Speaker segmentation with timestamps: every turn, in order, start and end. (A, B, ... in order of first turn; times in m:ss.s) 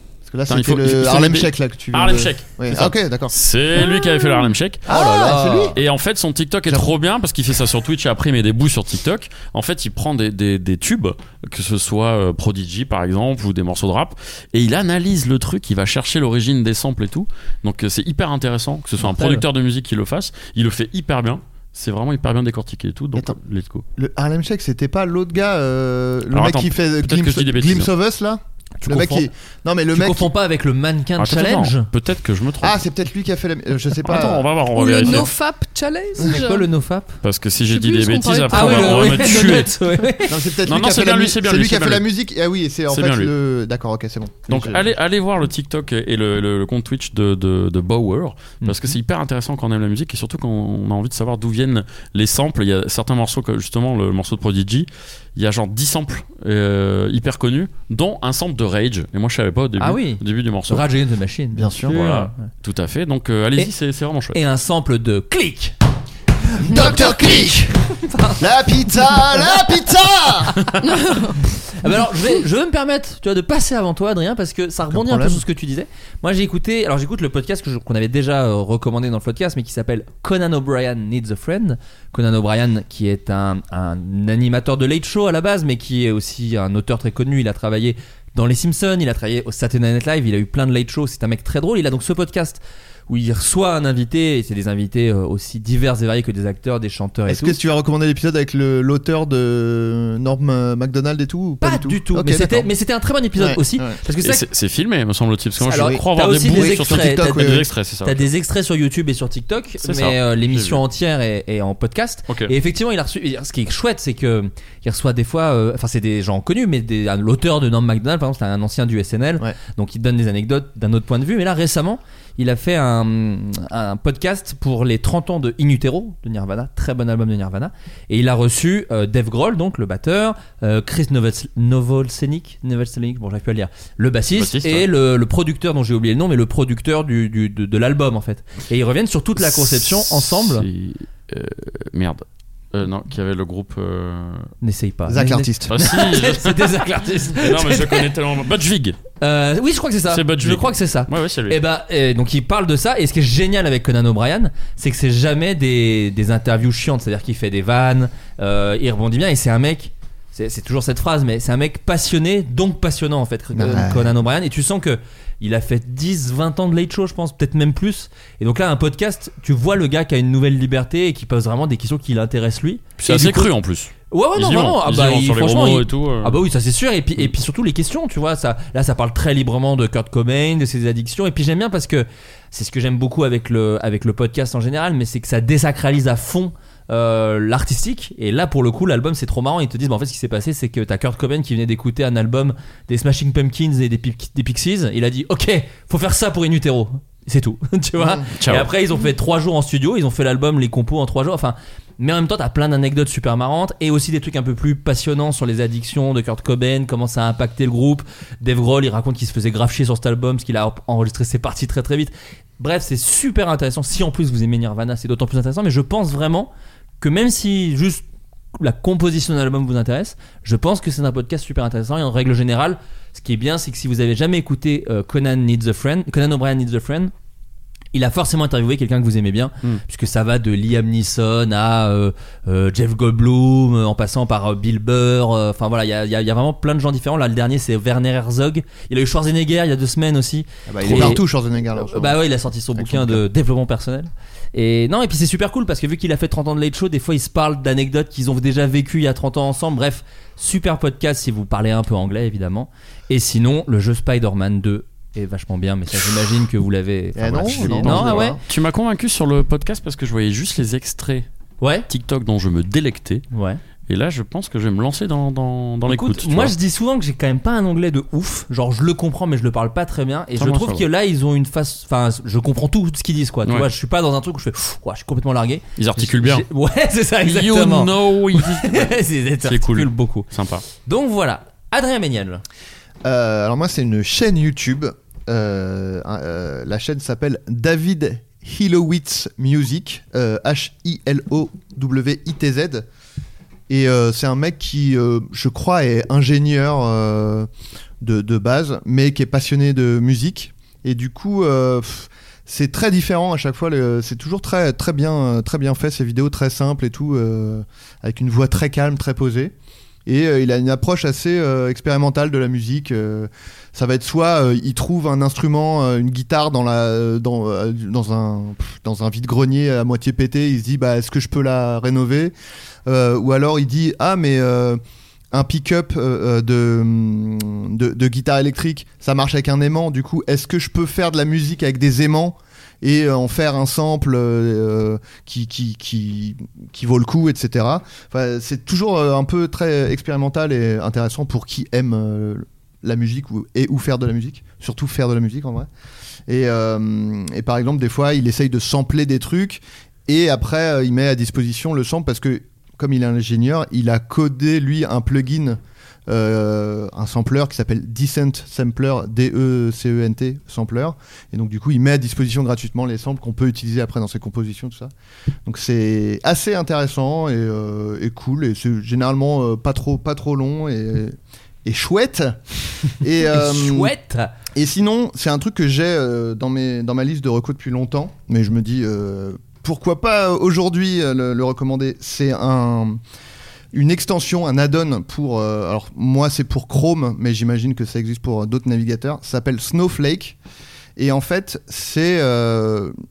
0:00.3-0:03.3 A
0:00.5-0:05.0 B
0:04.9-0:05.8 A
0:04.9-0:05.8 C
0:05.8-0:23.8 B
0:24.0-0:30.3 A
0:26.3-0:27.9 B
0:28.8-0:29.2 C
0:29.9-0:31.9 C
0:31.2-0:32.8 B
0:32.6-0:34.5 A
0:34.0-0:35.3 B
0:34.7-0:36.7 D
0:36.2-0:37.2 C
0:37.2-0:39.7 B
0:37.7-0:39.6 D
0:38.5-0:40.4 C
0:40.3-0:44.9 A
0:40.6-0:42.0 B
0:42.9-0:43.3 B
0:44.5-1:00.8 B
0:48.6-0:48.9 C
0:59.8-1:02.5 C
1:01.5-1:02.0 A
1:01.9-1:04.4 B
1:04.3-1:05.8 C
1:06.6-1:07.7 A
1:06.6-1:08.4 C
1:08.4-1:10.6 A
1:10.8-1:11.5 D
1:11.8-1:37.6 C
1:14.9-1:15.4 A
1:37.3-1:42.7 A
1:41.6-1:44.4 C
1:43.4-1:44.0 A
1:44.2-1:48.3 B
1:45.6-1:47.5 C
1:45.8-1:47.7 A
1:48.0-2:20.7 C
1:49.8-1:50.8 B
2:14.3-2:14.9 B
2:19.4-2:24.5 B
2:24.6-2:28.1 C
2:25.1-2:25.7 A
2:25.7-2:26.7 B
2:27.4-2:29.0 B
2:29.2-2:53.5 C
2:30.1-2:31.6 B
2:43.5-2:44.1 A
2:53.0-2:56.4 B
2:54.1-3:38.0 C
3:18.0-3:18.3 A
3:18.4-3:18.7 B
3:38.6-3:47.1 C
3:47.9-4:01.2 C
4:00.7-4:02.2 A
4:01.8-4:18.4 C
4:02.8-4:03.2 A
4:17.2-4:18.4 A
4:17.4-4:21.3 B
4:21.6-4:21.9 C
4:21.9-4:23.3 B
4:23.3-4:23.6 C
4:23.9-4:26.6 B
4:25.9-4:40.3 C
4:30.4-4:30.9 B
4:35.8-4:36.5 B
4:37.2-4:38.9 B
4:39.4-4:40.7 B
4:40.8-4:42.4 C
4:43.0-4:52.9 A
4:53.7-4:57.5 A
4:58.0-5:09.5 A
5:10.1-5:22.3 A
5:22.9-5:24.8 A
5:25.3-5:45.7 A
5:46.3-6:04.9 A
6:05.4-6:12.4 A
6:13.0-6:13.9 A
6:13.3-6:14.3 C
6:14.6-6:23.0 A
6:23.7-6:30.4 A
6:31.0-6:32.9 A